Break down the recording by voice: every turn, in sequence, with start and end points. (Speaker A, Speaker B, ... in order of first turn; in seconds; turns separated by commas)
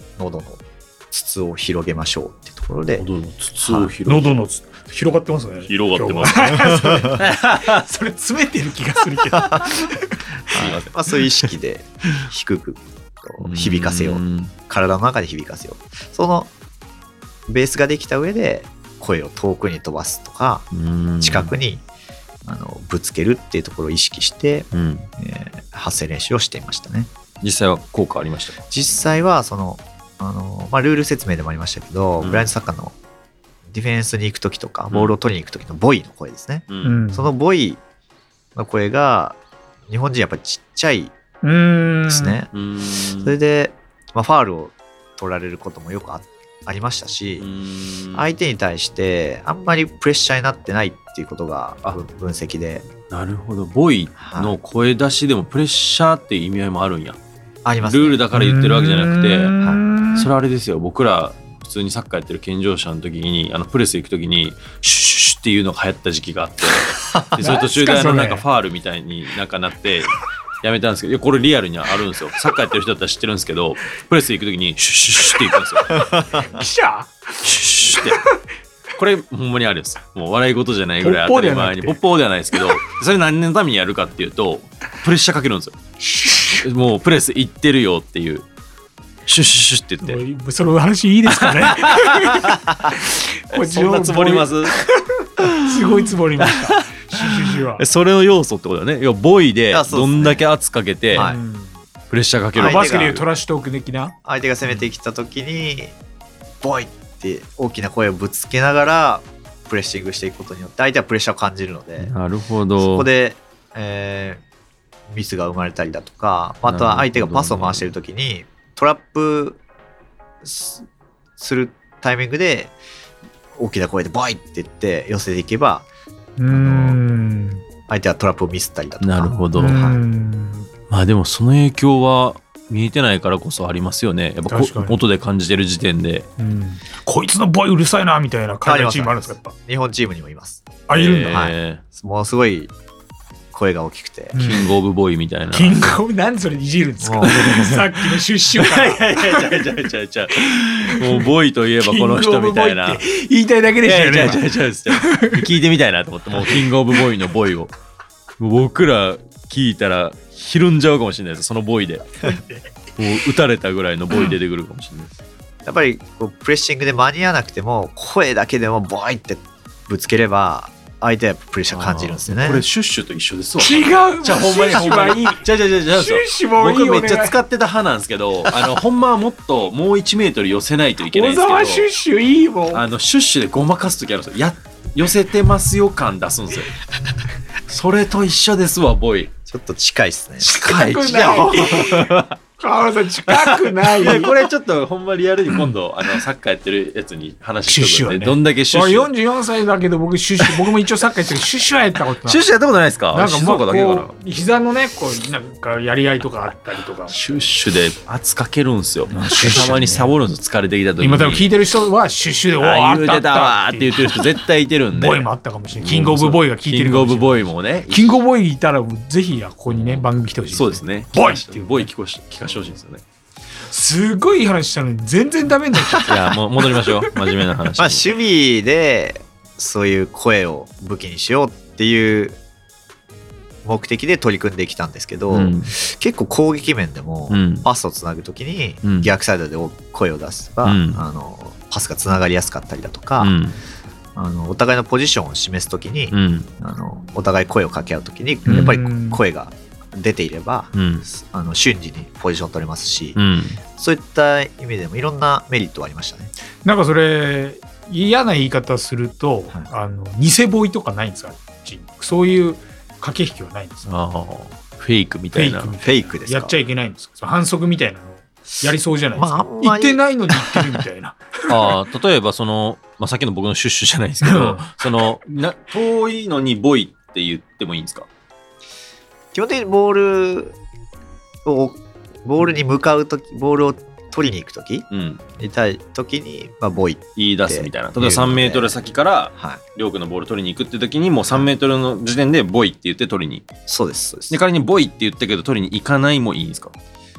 Speaker A: 0.2-3.0, Speaker B: 3.0-4.3, Speaker A: 3.6-3.9, Speaker C: 4.0-10.3, Speaker B: 5.7-7.9, Speaker A: 6.6-7.2, Speaker A: 9.3-9.7, Speaker A: 10.5-16.5, Speaker B: 10.5-10.9, Speaker B: 13.4-14.5, Speaker A: 17.5-20.6, Speaker B: 20.7-21.5, Speaker A: 21.2-21.8, Speaker A: 22.4-27.1, Speaker B: 24.7-25.1, Speaker B: 27.4-28.6, Speaker A: 28.7-32.9, Speaker B: 32.2-32.5, Speaker A: 33.7-37.8, Speaker B: 36.7-37.0, Speaker C: 36.8-37.3, Speaker A: 38.5-41.1, Speaker C: 41.4-42.4, Speaker A: 42.1-42.5, Speaker B: 42.5-43.3, Speaker A: 43.2-47.5, Speaker B: 47.4-48.3, Speaker A: 48.1-52.9, Speaker B: 53.1-57.2, Speaker A: 54.2-54.6, Speaker A: 57.6-58.2, Speaker B: 57.8-59.5, Speaker C: 58.3-60.3, Speaker B: 60.1-76.0, Speaker A: 67.1-67.4, Speaker C: 67.4-68.4, Speaker A: 76.0-76.5, Speaker C: 76.3-78.4, Speaker B: 77.4-78.2, Speaker B: 79.0-85.8, Speaker C: 81.0-82.0, Speaker C: 86.0-86.6, Speaker B: 86.6-88.4, Speaker B: 89.2-90.2, Speaker C: 90.0-97.8, Speaker B: 91.3-92.6, Speaker B: 93.5-94.8, Speaker B: 95.4-101.3, Speaker A: 99.7-100.5, Speaker A: 101.1-101.4, Speaker C: 101.1-101.8, Speaker B: 102.1-103.2, Speaker A: 102.5-103.2, Speaker C: 102.6-104.1, Speaker A: 104.2-106.0, Speaker A: 106.6-112.1, Speaker B: 112.0-113.1, Speaker A: 112.8-114.4, Speaker A: 115.1-119.6, Speaker B: 116.7-117.9, Speaker A: 120.4-120.8, Speaker A: 121.4-122.7, Speaker A: 123.5-125.9, Speaker C: 126.4-127.6, Speaker A: 126.5-127.0, Speaker A: 127.9-130.0, Speaker B: 129.0-129.8, Speaker C: 129.5-130.7, Speaker B: 130.9-136.3, Speaker C: 134.5-135.0, Speaker C: 136.4-139.5, Speaker A: 138.6-140.6, Speaker C: 140.9-141.4, Speaker B: 140.9-141.8, Speaker A: 141.3-142.7, Speaker A: 143.5-144.4, Speaker C: 144.3-144.7, Speaker B: 144.3-145.9, Speaker C: 145.5-149.6, Speaker A: 147.0-147.4, Speaker B: 147.2-153.0, Speaker C: 150.3-155.5, Speaker B: 153.8-157.7, Speaker B: 158.4-162.2, Speaker C: 162.2-162.6, Speaker B: 163.0-165.1, Speaker A: 165.6-172.6, Speaker B: 171.7-181.9, Speaker C: 173.6-177.3, Speaker C: 181.1-182.8, Speaker B: 182.7-186.7, Speaker B: 187.7-189.3, Speaker A: 189.5-190.5, Speaker B: 190.4-192.4, Speaker C: 190.4-194.4, Speaker B: 193.3-199.1, Speaker C: 197.7-202.4, Speaker B: 200.4-200.7, Speaker B: 202.2-204.1, Speaker C: 203.1-207.2, Speaker B: 207.1-211.5, Speaker C: 209.1-210.1, Speaker C: 211.0-214.3, Speaker B: 212.6-215.3, Speaker C: 214.9-221.9, Speaker B: 215.8-218.2, Speaker B: 219.7-223.0, Speaker C: 223.7-227.1, Speaker B: 226.1-228.1, Speaker A: 227.8-232.4, Speaker A: 233.6-243.3, Speaker B: 235.3-235.7, Speaker B: 237.3-237.7, Speaker B: 238.8-239.1, Speaker B: 240.6-241.0, Speaker B: 243.2-243.6, Speaker A: 244.1-253.2, Speaker B: 246.1-246.5, Speaker C: 248.4-249.2, Speaker B: 248.5-248.7, Speaker B: 250.7-251.0, Speaker B: 253.2-253.6, Speaker A: 253.8-256.3, Speaker C: 256.6-263.9, Speaker B: 263.8-265.7, Speaker C: 265.3-271.7, Speaker A: 265.8-266.6, Speaker A: 269.2-270.8, Speaker B: 271.5-278.1, Speaker C: 274.2-275.1, Speaker A: 279.3-280.6, Speaker A: 281.4-284.9, Speaker B: 284.9-285.2, Speaker A: 285.4-288.8, Speaker B: 287.2-293.5, Speaker A: 289.4-289.6, Speaker A: 293.7-294.4, Speaker B: 294.3-296.7